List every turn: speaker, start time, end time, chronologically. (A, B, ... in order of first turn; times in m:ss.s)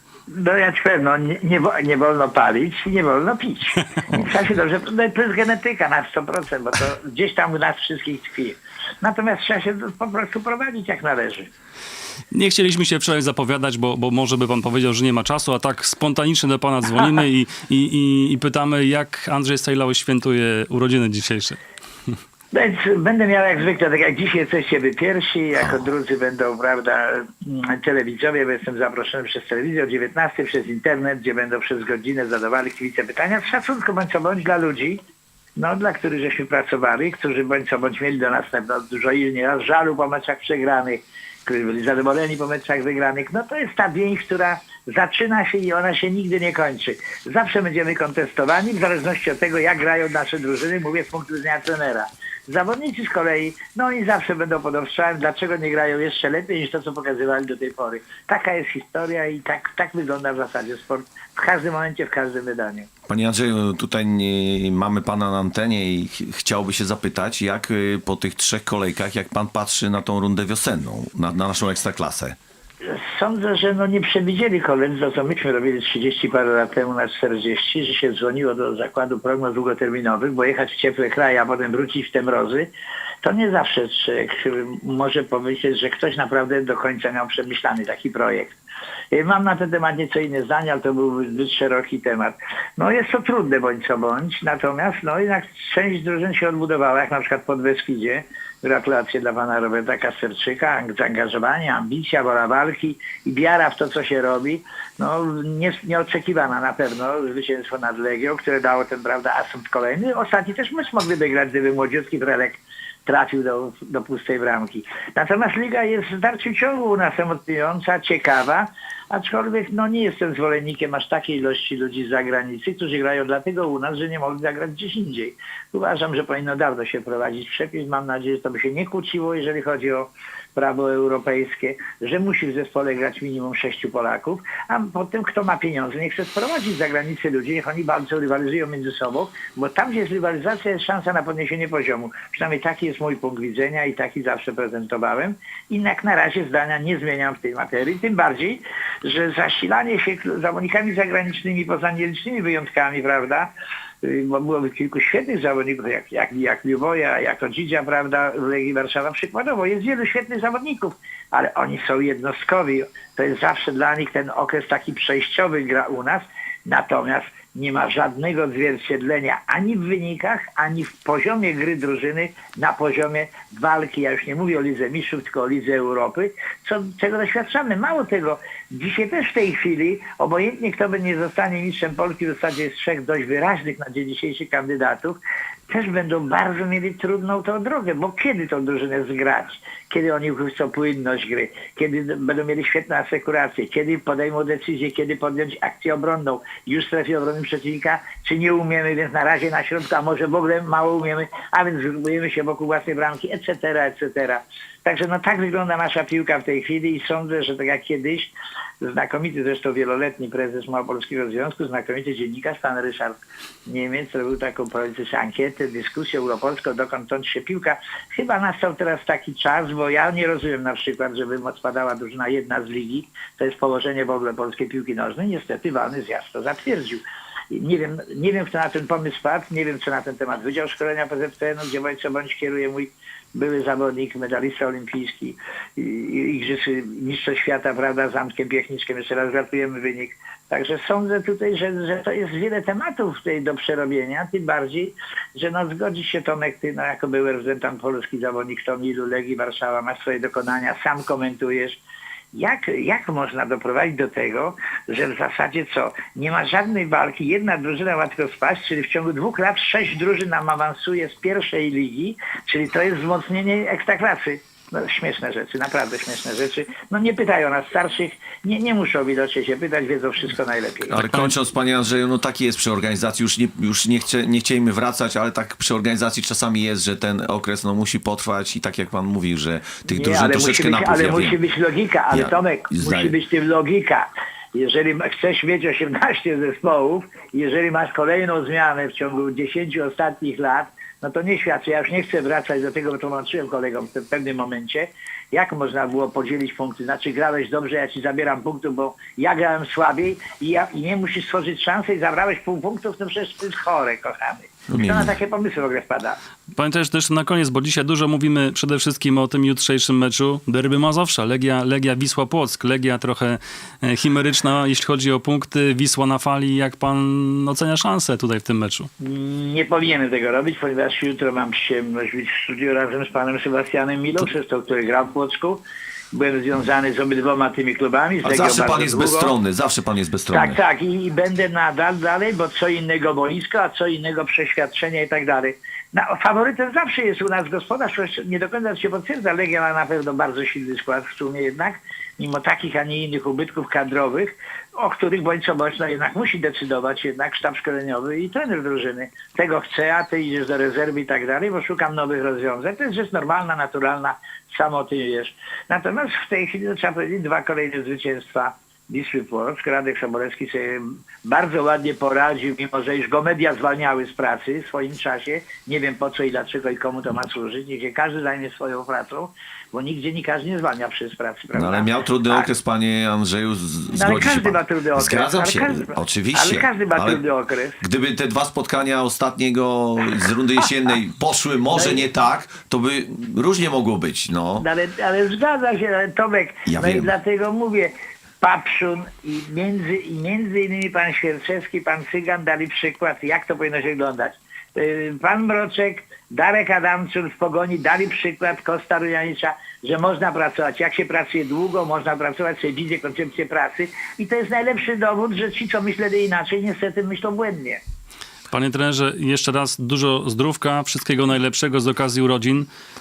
0:00.3-0:11.5 A
0:12.3-0:21.6 B
0:22.5-0:35.0 A
0:35.6-1:02.9 A
1:03.1-1:12.4 C
1:12.8-1:22.7 A
1:23.2-1:28.6 A
1:29.1-2:33.5 A
2:34.0-4:11.8 A
4:12.3-4:31.0 A
4:30.9-4:41.4 C
4:39.8-5:06.2 A
4:42.1-4:43.2 C
5:04.7-5:05.1 C
5:06.5-5:18.9 B
5:19.0-5:29.3 A
5:28.2-5:30.6 C
5:30.3-6:12.5 A
6:11.5-6:17.2 C
6:13.9-6:17.8 A
6:17.8-6:24.7 C
6:24.6-6:47.8 A
6:26.7-6:27.1 C
6:48.5-6:52.7 B